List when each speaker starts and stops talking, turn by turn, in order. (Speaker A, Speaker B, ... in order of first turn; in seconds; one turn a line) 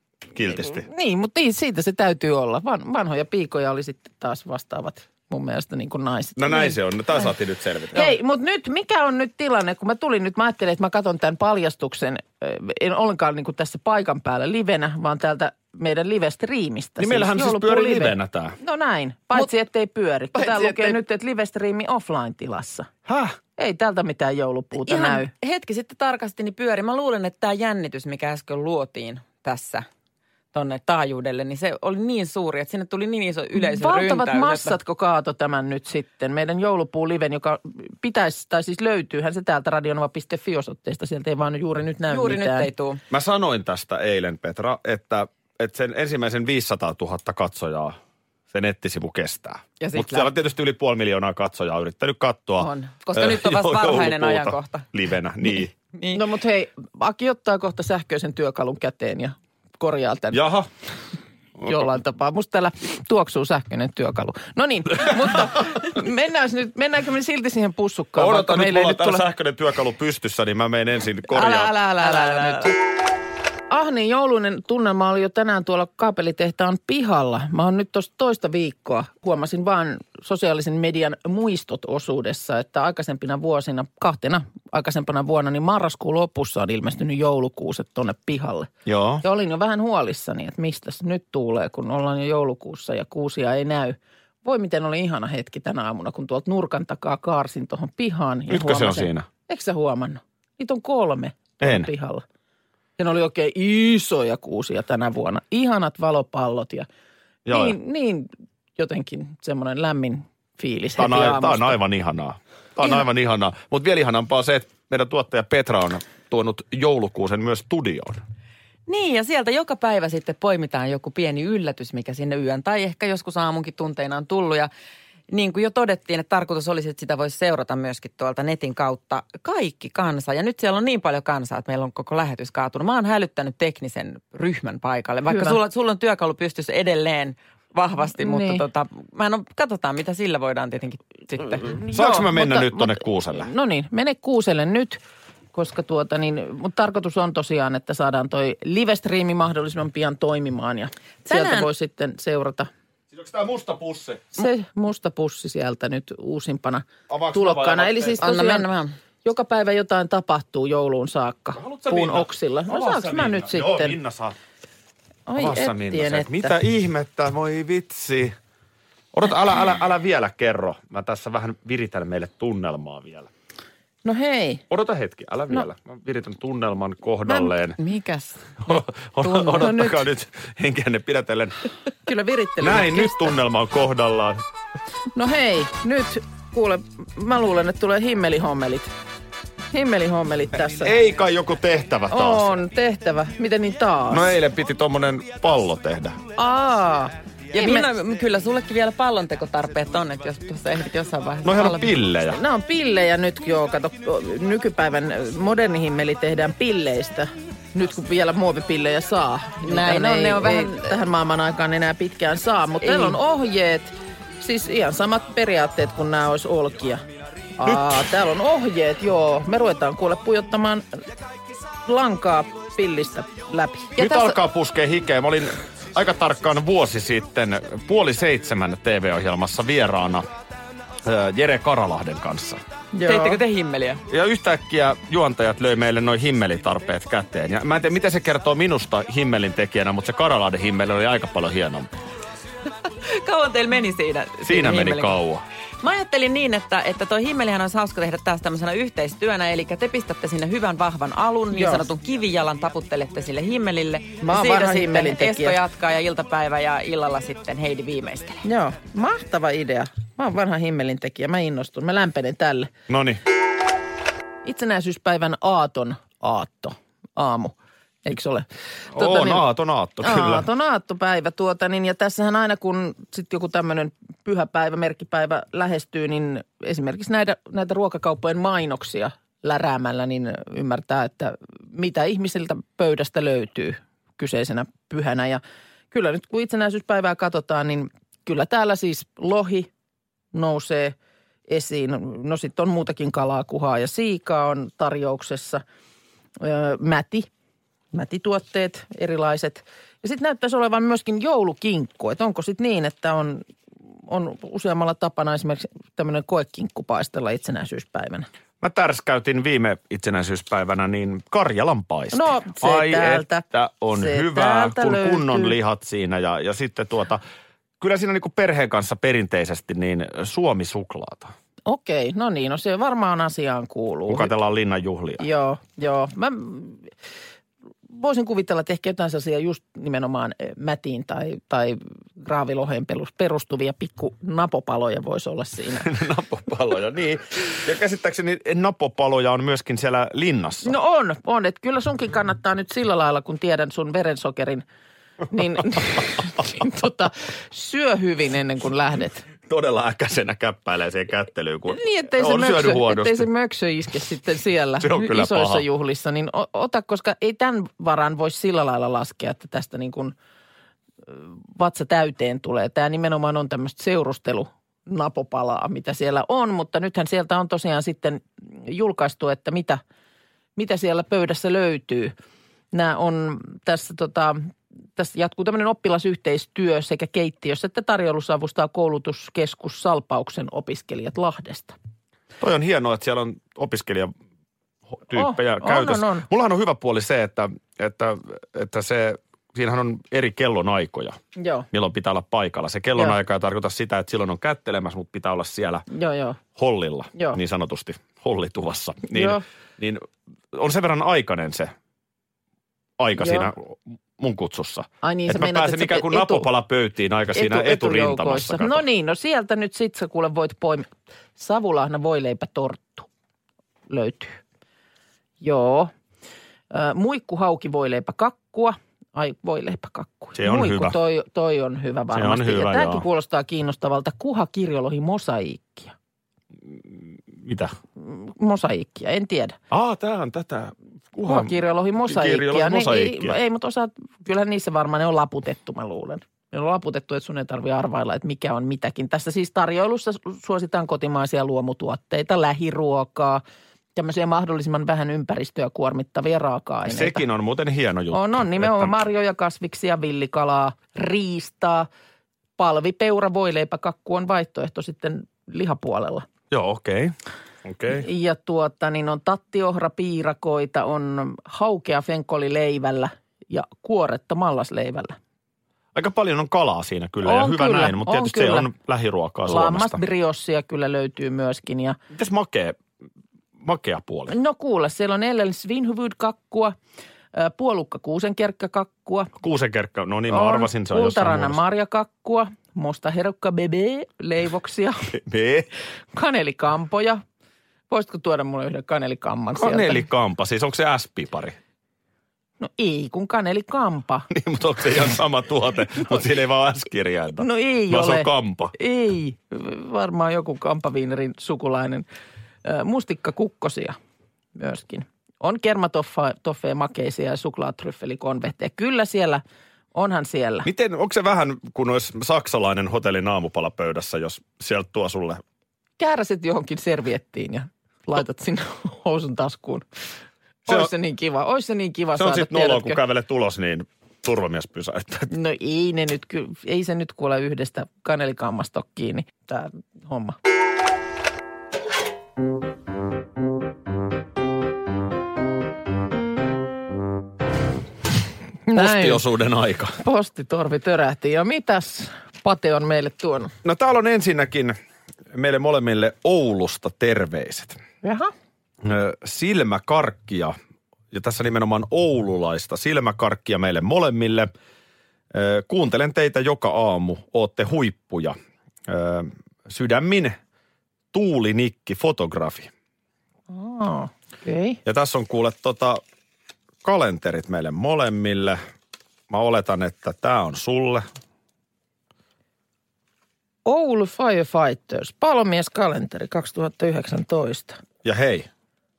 Speaker A: 0.3-0.9
Speaker B: 0.6-6.8
Speaker A: 6.4-8.1
Speaker B: 7.9-22.9
Speaker A: 17.0-18.6
Speaker C: 20.4-20.9
Speaker A: 23.1-23.4
Speaker B: 23.6-25.3
Speaker C: 24.7-29.9
Speaker C: 30.5-34.8
Speaker B: 33.6-42.7
Speaker C: 42.1-43.0
Speaker A: 43.1-48.0
Speaker A: 48.5-55.7
Speaker C: 49.8-50.3
Speaker C: 52.6-54.9
Speaker C: 55.5-56.2
Speaker B: 56.1-60.4
Speaker A: 60.3-60.7
Speaker B: 61.6-69.3
Speaker A: 68.2-71.7
Speaker C: 71.3-72.7
Speaker B: 71.8-72.7
Speaker B: 73.7-88.7
Speaker A: 88.9-89.2
Speaker B: 89.2-102.2
Speaker A: 98.5-99.3
Speaker A: 101.6-101.9
Speaker B: 103.0-106.9
Speaker A: 107.5-107.8
Speaker B: 107.5-111.8
Speaker A: 111.0-118.2
Speaker C: 118.9-124.7
Speaker C: 125.3-141.7
Speaker B: 135.3-135.6
Speaker B: 138.2-138.7
Speaker B: 141.6-145.0
Speaker A: 141.9-143.5
Speaker B: 145.5-152.7
Speaker C: 151.3-151.7
Speaker A: 153.1-154.2
Speaker B: 154.3-158.7
Speaker A: 157.1-158.2
Speaker C: 158.2-159.0
Speaker B: 159.2-164.0
Speaker A: 161.6-164.4
Speaker B: 165.3-166.6
Speaker A: 165.4-168.3
Speaker A: 169.1-173.3
Speaker B: 174.0-174.7
Speaker A: 174.7-177.8
Speaker B: 177.3-177.5
Speaker C: 177.8-179.7
Speaker A: 178.7-181.6
Speaker B: 179.6-180.1
Speaker B: 182.1-183.3
Speaker A: 182.6-184.4
Speaker B: 185.2-188.9
Speaker B: 189.7-191.0
Speaker A: 190.7-192.5
Speaker B: 192.1-194.3
Speaker A: 194.1-196.2
Speaker B: 196.4-197.9
Speaker C: 197.6-202.0
Speaker A: 201.4-202.4
Speaker B: 202.3-217.0
Speaker C: 209.6-210.9
Speaker C: 212.8-213.2
Speaker B: 217.6-220.9
Speaker B: 221.8-224.4
Speaker A: 224.0-230.3
Speaker A: 231.0-232.6
Speaker B: 232.9-233.4
Speaker C: 233.1-234.0
Speaker A: 234.1-241.9
Speaker C: 243.2-245.2
Speaker A: 244.4-245.4
Speaker C: 245.8-258.4
Speaker B: 251.5-251.9
Speaker B: 254.2-255.6
Speaker B: 258.4-262.7
Speaker A: 262.9-263.2
Speaker B: 264.4-269.5
Speaker A: 268.9-270.5
Speaker B: 270.0-289.7
Speaker B: 290.3-291.0
Speaker B: 291.5-295.6
Speaker B: 296.4-297.3
Speaker B: 297.9-303.4
Speaker B: 304.1-308.3
Speaker A: 308.6-317.2
Speaker B: 312.1-315.6
Speaker A: 317.8-321.3
Speaker B: 321.7-324.3
Speaker A: 324.1-325.2
Speaker B: 325.2-326.9
Speaker B: 327.9-335.9
Speaker A: 335.8-340.7
Speaker B: 340.6-344.7
Speaker B: 345.3-349.3
Speaker A: 349.5-353.2
Speaker B: 351.7-360.1
Speaker A: 354.8-355.6
Speaker B: 361.1-369.8
Speaker B: 370.6-372.1
Speaker B: 372.7-374.4
Speaker B: 375.0-381.8
Speaker A: 382.4-384.1
Speaker A: 385.1-391.2
Speaker B: 385.1-386.3
Speaker B: 391.4-391.7
Speaker A: 391.7-395.8
Speaker B: 395.9-396.4
Speaker A: 396.6-401.7
Speaker B: 399.1-399.4
Speaker A: 403.0-408.8
Speaker B: 403.2-403.5
Speaker B: 405.0-406.5
Speaker B: 407.3-413.1
Speaker B: 413.9-414.4
Speaker B: 415.4-415.9
Speaker B: 416.7-425.9
Speaker A: 420.4-421.0
Speaker A: 422.1-423.1
Speaker A: 427.3-427.7
Speaker B: 428.0-429.6
Speaker A: 429.7-433.4
Speaker B: 431.3-443.4
Speaker B: 443.9-447.2
Speaker A: 446.9-448.9
Speaker B: 448.1-451.9
Speaker B: 452.6-456.3
Speaker A: 456.5-458.1
Speaker B: 457.9-465.2
Speaker A: 465.9-470.0
Speaker B: 467.2-468.7
Speaker B: 469.5-472.0
Speaker A: 472.1-472.8
Speaker A: 473.6-474.3
Speaker B: 474.3-476.8
Speaker B: 477.3-479.3
Speaker A: 479.4-481.6
Speaker B: 480.3-485.0
Speaker A: 485.1-485.7
Speaker B: 486.1-487.2
Speaker B: 487.9-490.1
Speaker A: 489.6-491.6
Speaker B: 492.6-494.3
Speaker A: 494.3-498.7
Speaker B: 497.4-502.1
Speaker B: 502.6-504.0
Speaker B: 504.6-509.4
Speaker B: 509.9-510.7
Speaker A: 510.6-515.4
Speaker B: 516.0-519.9
Speaker B: 520.7-523.0
Speaker A: 522.2-525.3
Speaker B: 525.3-530.4
Speaker B: 538.7-539.2
Speaker A: 538.8-540.0
Speaker B: 540.0-543.5
Speaker A: 543.6-544.8
Speaker A: 545.3-547.8
Speaker B: 548.0-548.3
Speaker A: 548.8-550.5
Speaker A: 551.1-554.5
Speaker A: 555.3-558.4
Speaker A: 558.9-560.4
Speaker A: 561.1-562.7
Speaker B: 563.5-564.8
Speaker A: 564.9-566.0
Speaker A: 566.8-568.6
Speaker A: 569.3-571.0
Speaker B: 573.6-577.8
Speaker A: 578.0-578.5